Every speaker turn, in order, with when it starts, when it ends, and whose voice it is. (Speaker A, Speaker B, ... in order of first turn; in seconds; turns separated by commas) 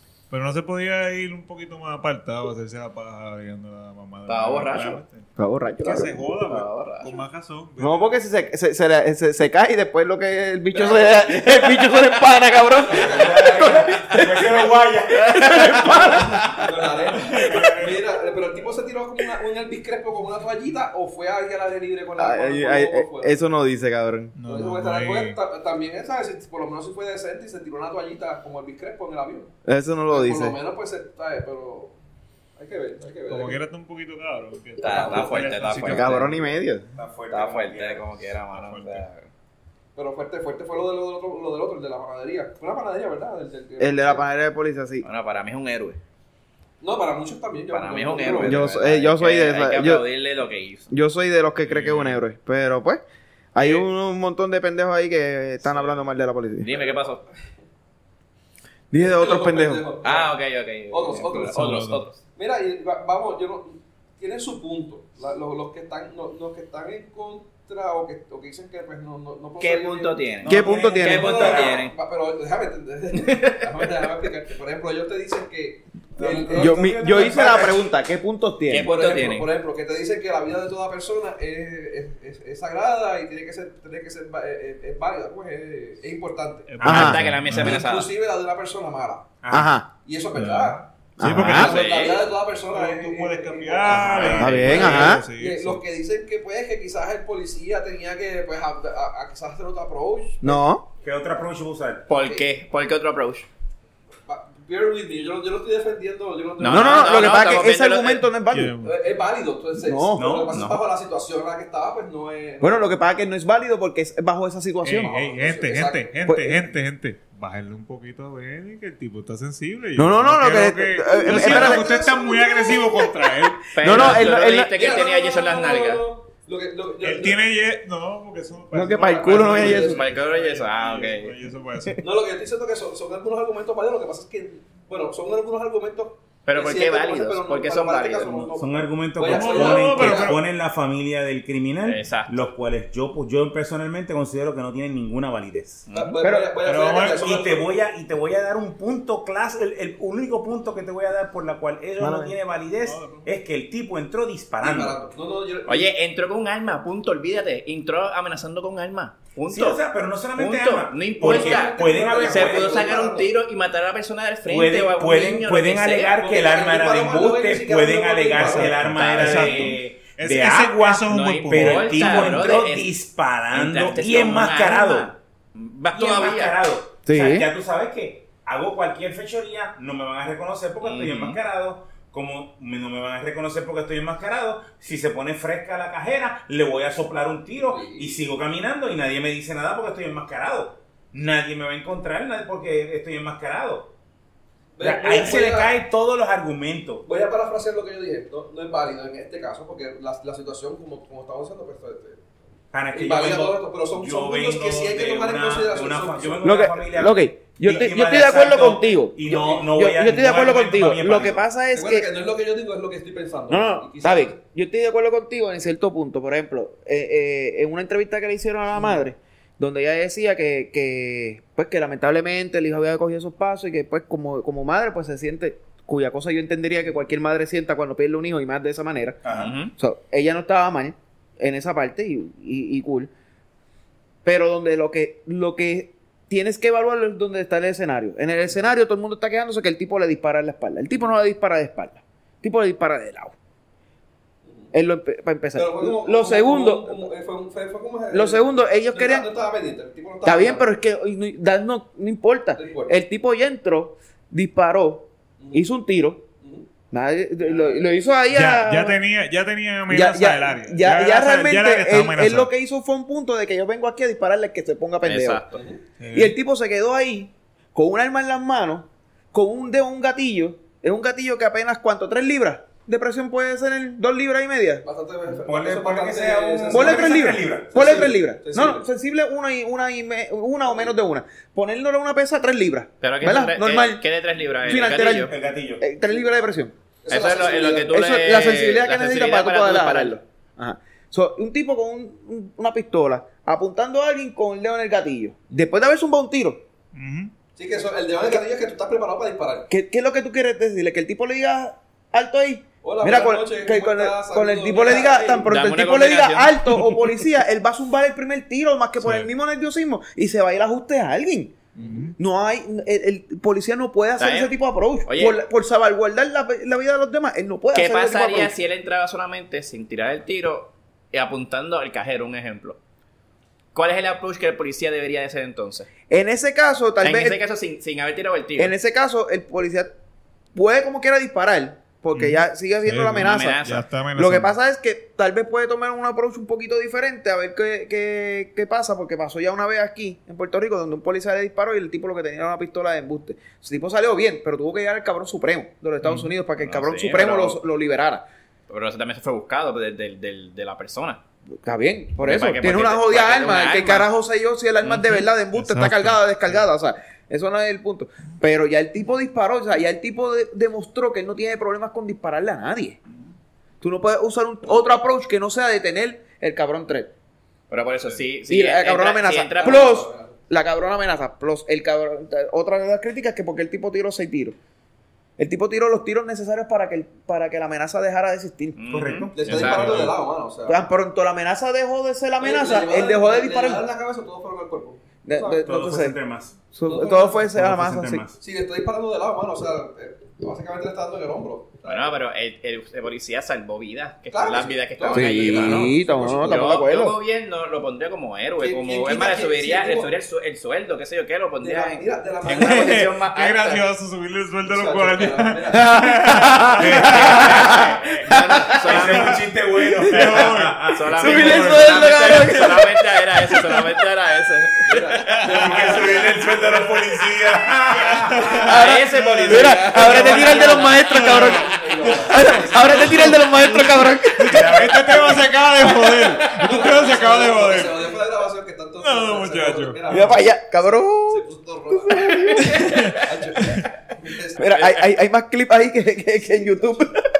Speaker A: 0.3-5.3, Speaker B: 4.3-5.0, Speaker C: 5.4-6.2, Speaker A: 5.8-8.2, Speaker B: 6.4-7.2, Speaker C: 7.8-16.7, Speaker D: 10.7-11.7, Speaker D: 12.7-13.9, Speaker E: 12.9-16.2, Speaker D: 16.6-23.4, Speaker A: 17.2-18.1, Speaker C: 22.2-24.3, Speaker A: 24.3-25.4, Speaker D: 24.4-29.5, Speaker C: 29.6-30.6, Speaker D: 30.1-31.9, Speaker D: 32.6-33.6, Speaker A: 33.3-36.5, Speaker B: 34.8-36.3, Speaker D: 34.8-35.8, Speaker C: 35.8-36.8, Speaker E: 36.9-38.0, Speaker B: 37.3-39.3, Speaker A: 38.5-39.0, Speaker D: 40.0-44.3, Speaker C: 43.8-45.0, Speaker B: 45.0-46.0, Speaker D: 46.8-48.7, Speaker B: 47.7-50.9, Speaker C: 48.4-50.0, Speaker C: 50.9-53.0, Speaker A: 51.6-52.2, Speaker C: 53.5-56.7, Speaker B: 53.6-53.8, Speaker B: 56.6-57.2, Speaker C: 58.9-59.9, Speaker D: 58.9-60.3, Speaker B: 60.0-62.2, Speaker D: 60.9-61.7, Speaker A: 61.5-62.1, Speaker D: 62.3-77.7, Speaker B: 69.6-71.9, Speaker C: 70.4-71.6, Speaker E: 70.4-71.8, Speaker B: 73.2-73.9, Speaker E: 76.2-77.9, Speaker C: 76.5-78.9, Speaker B: 78.7-79.5, Speaker D: 78.8-86.8, Speaker A: 86.7-87.8, Speaker C: 86.8-87.2, Speaker B: 86.8-88.1, Speaker D: 87.4-89.3, Speaker E: 89.4-89.7, Speaker C: 89.5-89.9, Speaker D: 90.0-100.6, Speaker A: 90.3-92.0, Speaker C: 91.2-91.8, Speaker B: 91.4-92.3, Speaker A: 92.6-95.8, Speaker E: 93.9-95.1, Speaker B: 93.9-94.8, Speaker C: 94.4-95.2, Speaker C: 100.4-100.9, Speaker E: 101.0-102.1, Speaker B: 102.1-103.5, Speaker D: 102.1-102.4, Speaker D: 104.3-107.4, Speaker B: 106.6-108.3, Speaker C: 106.7-108.8, Speaker A: 108.5-109.0, Speaker D: 108.8-112.9, Speaker C: 109.8-110.3, Speaker E: 110.1-110.8, Speaker C: 112.6-115.2, Speaker A: 114.8-124.2, Speaker D: 114.9-116.1, Speaker C: 116.2-116.7, Speaker C: 120.0-122.0, Speaker D: 121.1-123.0, Speaker C: 123.7-124.7, Speaker B: 123.7-126.0, Speaker D: 123.9-127.4, Speaker A: 127.0-132.0, Speaker C: 128.7-130.0, Speaker D: 129.1-130.0, Speaker B: 129.6-131.3, Speaker D: 132.0-140.4, Speaker B: 136.4-138.5, Speaker E: 138.6-145.9, Speaker A: 139.2-140.4, Speaker B: 141.8-142.5, Speaker B: 145.9-146.2, Speaker D: 145.9-147.7, Speaker C: 146.2-146.5, Speaker A: 146.6-147.2, Speaker E: 146.7-154.9, Speaker C: 152.0-152.3, Speaker A: 152.8-153.2, Speaker D: 154.6-155.9, Speaker B: 155.7-159.8, Speaker E: 159.5-163.1, Speaker B: 160.3-166.2, Speaker D: 161.2-163.3, Speaker E: 164.4-175.2, Speaker D: 166.2-168.8, Speaker A: 168.6-172.5, Speaker B: 168.8-169.8, Speaker B: 171.1-172.9, Speaker B: 173.5-176.6, Speaker E: 175.9-193.9, Speaker C: 177.1-177.5, Speaker B: 180.8-181.4, Speaker D: 187.7-188.2, Speaker D: 194.8-195.8, Speaker E: 194.8-197.1, Speaker D: 197.0-202.2, Speaker E: 202.7-211.4, Speaker D: 202.9-206.5, Speaker C: 206.4-212.1, Speaker D: 211.7-214.4, Speaker C: 213.5-229.2, Speaker E: 229.2-229.5, Speaker B: 229.3-229.7, Speaker C: 229.7-233.1, Speaker C: 234.2-243.3, Speaker D: 244.4-244.7, Speaker C: 244.7-247.0, Speaker D: 245.5-250.7, Speaker C: 248.1-249.3, Speaker C: 250.2-256.2, Speaker D: 252.6-252.9, Speaker D: 255.4-255.7, Speaker D: 256.4-256.7, Speaker C: 256.9-259.0, Speaker D: 257.4-257.9, Speaker A: 258.3-262.5, Speaker C: 259.9-265.4, Speaker B: 265.0-265.6, Speaker D: 265.5-265.8, Speaker A: 266.0-266.3, Speaker C: 266.1-274.8, Speaker D: 274.8-278.9, Speaker E: 275.3-278.0, Speaker C: 276.7-284.0, Speaker B: 283.0-285.3, Speaker C: 284.6-286.7, Speaker E: 285.3-285.8, Speaker D: 287.0-287.9, Speaker B: 287.1-290.2, Speaker C: 287.9-296.6, Speaker A: 296.9-297.3, Speaker D: 297.6-299.7, Speaker C: 299.7-311.6, Speaker D: 302.8-305.5, Speaker B: 305.4-307.0, Speaker A: 309.0-309.3, Speaker A: 311.8-312.1, Speaker C: 312.2-318.5, Speaker B: 314.2-315.4, Speaker B: 317.7-322.8, Speaker B: 323.7-325.9, Speaker C: 326.1-327.4, Speaker B: 327.0-328.7, Speaker C: 328.6-329.9, Speaker C: 330.5-348.2, Speaker A: 332.1-334.5, Speaker B: 333.2-333.8, Speaker A: 346.0-346.3, Speaker B: 346.6-347.6, Speaker B: 348.7-351.2, Speaker C: 351.6-363.0, Speaker B: 352.2-354.1, Speaker B: 354.8-355.2, Speaker A: 355.5-356.6, Speaker C: 363.8-367.1, Speaker B: 367.7-369.9, Speaker C: 368.5-374.6, Speaker D: 369.6-370.4, Speaker C: 375.4-378.8, Speaker B: 378.8-380.1, Speaker E: 378.9-380.0, Speaker D: 379.3-380.8, Speaker A: 379.6-380.1, Speaker C: 380.6-383.8, Speaker D: 382.4-385.6, Speaker C: 385.2-386.2, Speaker E: 385.6-386.6, Speaker C: 386.7-388.2, Speaker D: 386.9-387.4, Speaker E: 387.2-388.4, Speaker D: 388.4-392.2, Speaker B: 391.8-403.8, Speaker D: 394.3-396.7, Speaker C: 395.1-397.1, Speaker D: 398.6-400.1, Speaker D: 401.6-403.1, Speaker A: 402.5-407.4, Speaker D: 404.6-406.0, Speaker C: 405.7-409.1, Speaker E: 406.8-411.1, Speaker B: 407.0-409.4, Speaker A: 409.1-409.4, Speaker C: 409.8-410.6, Speaker A: 410.0-412.0, Speaker B: 410.9-415.4, Speaker C: 411.1-413.9, Speaker D: 414.8-416.5, Speaker A: 415.3-428.1, Speaker E: 415.6-419.0, Speaker B: 418.5-420.8, Speaker C: 418.6-426.6, Speaker D: 419.8-423.3, Speaker E: 424.5-425.4, Speaker D: 426.4-430.5, Speaker A: 429.0-430.2, Speaker C: 430.1-433.2, Speaker D: 431.2-434.7, Speaker B: 432.7-433.0, Speaker A: 432.8-433.9, Speaker C: 434.6-437.3, Speaker B: 434.6-435.1